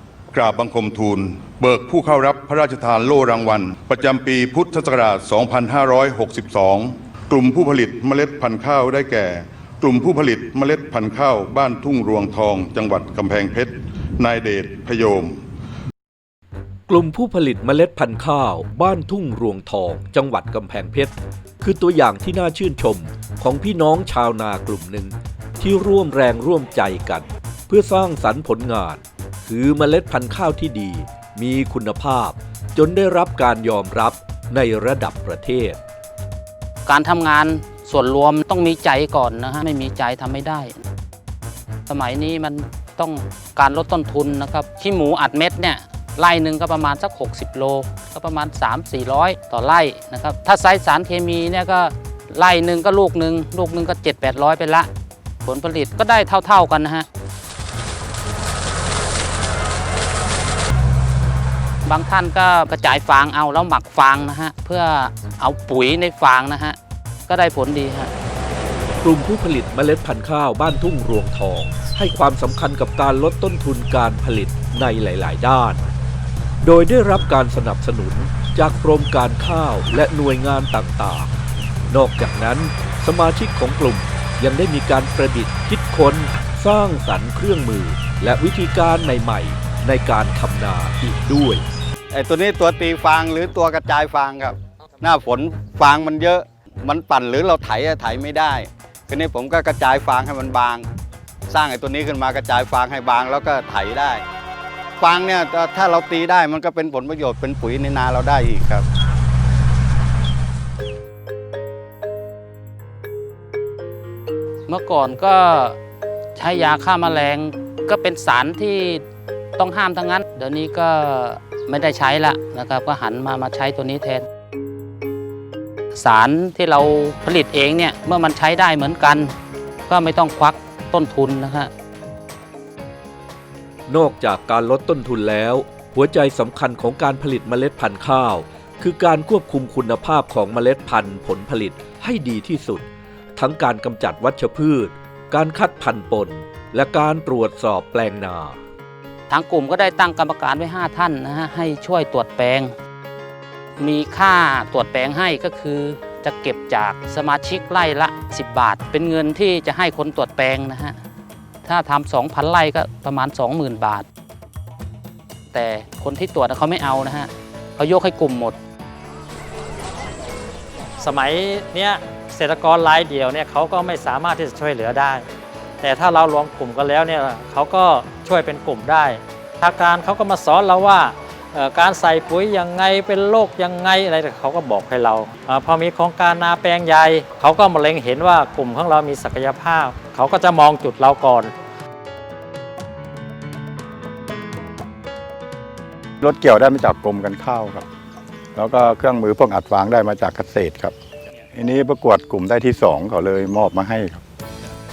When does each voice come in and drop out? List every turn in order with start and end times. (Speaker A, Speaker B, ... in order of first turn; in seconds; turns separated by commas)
Speaker A: 0.3-15.4, Speaker B: 16.9-35.8, Speaker C: 36.9-40.8, Speaker C: 41.9-54.9, Speaker C: 55.5-57.1, Speaker C: 61.9-66.8, Speaker C: 67.3-68.1, Speaker B: 69.0-75.8, Speaker B: 76.6-81.3, Speaker B: 81.9-91.7, Speaker D: 92.1-100.9, Speaker D: 101.5-104.2, Speaker D: 105.0-108.9, Speaker C: 114.7-115.8, Speaker C: 116.4-119.0, Speaker C: 119.6-124.3, Speaker C: 126.0-129.3, Speaker C: 129.9-131.7, Speaker B: 133.9-148.6, Speaker C: 149.3-152.7, Speaker C: 153.8-161.0, Speaker C: 161.7-164.1, Speaker C: 165.5-168.6, Speaker E: 171.0-175.3, Speaker E: 175.8-191.5, Speaker F: 196.2-197.9, Speaker F: 198.6-200.9, Speaker F: 201.5-204.2